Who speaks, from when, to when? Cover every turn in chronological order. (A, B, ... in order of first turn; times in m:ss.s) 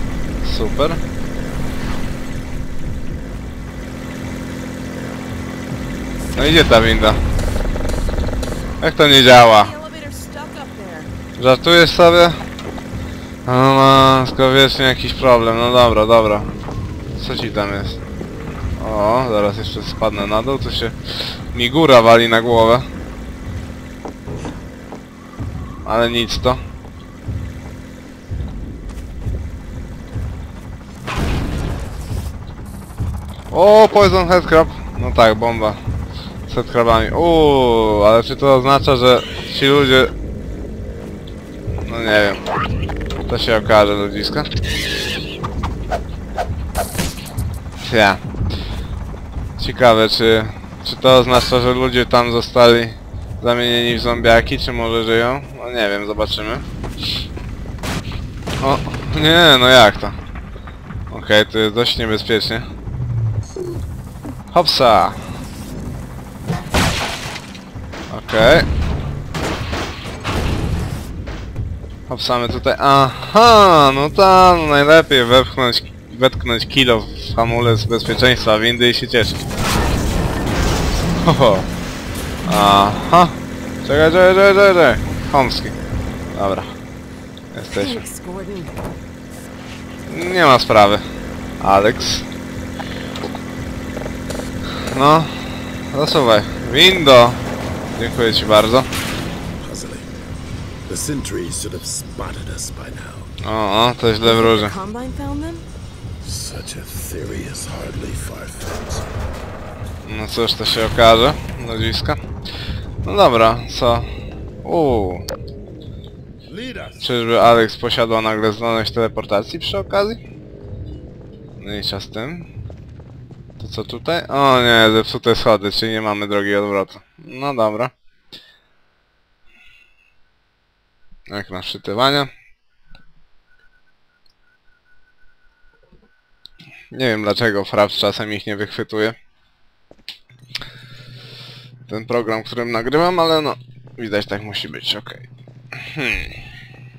0:00.4-0:01.0 A
0:06.4-0:07.2 A
0:08.8-0:09.7 A
0:09.3-0:11.1 B
0:11.4-0:12.4 A
0:13.4-0:16.5 A
0:17.2-0:18.0 A
0:18.8-0:21.0 A
0:21.5-0:22.9 A
0:25.8-0:26.6 A
0:33.5-0:35.8 A
0:36.5-0:40.1 A
0:41.8-0:42.4 A
0:43.3-0:44.5 A
0:47.8-0:48.2 A
0:49.6-0:56.6 A
0:58.6-1:00.2 A
1:01.1-1:02.6 A
1:04.5-1:05.2 A
1:08.1-1:08.6 A
1:12.1-1:19.4 A
1:21.2-1:21.7 A
1:22.4-1:25.7 A
1:26.3-1:26.7 A
1:27.5-1:28.0 A
1:27.7-1:28.8 B
1:30.1-1:31.0 A
1:31.6-1:32.2 A
1:34.9-1:35.3 A
1:35.9-1:37.4 A
1:38.0-1:38.9 A
1:39.6-1:40.1 C
1:40.9-1:43.3 C
1:43.4-1:44.7 A
1:44.2-1:45.6 B
1:46.2-1:49.0 C
1:50.0-1:52.2 A
1:53.0-1:54.1 A
1:54.6-1:55.2 A
1:56.5-1:57.3 C
1:57.0-2:00.2 A
2:01.6-2:02.4 A
2:03.6-2:07.9 A
2:11.3-2:12.3 A
2:16.9-2:19.2 A
2:21.9-2:25.2 A
2:25.8-2:26.4 A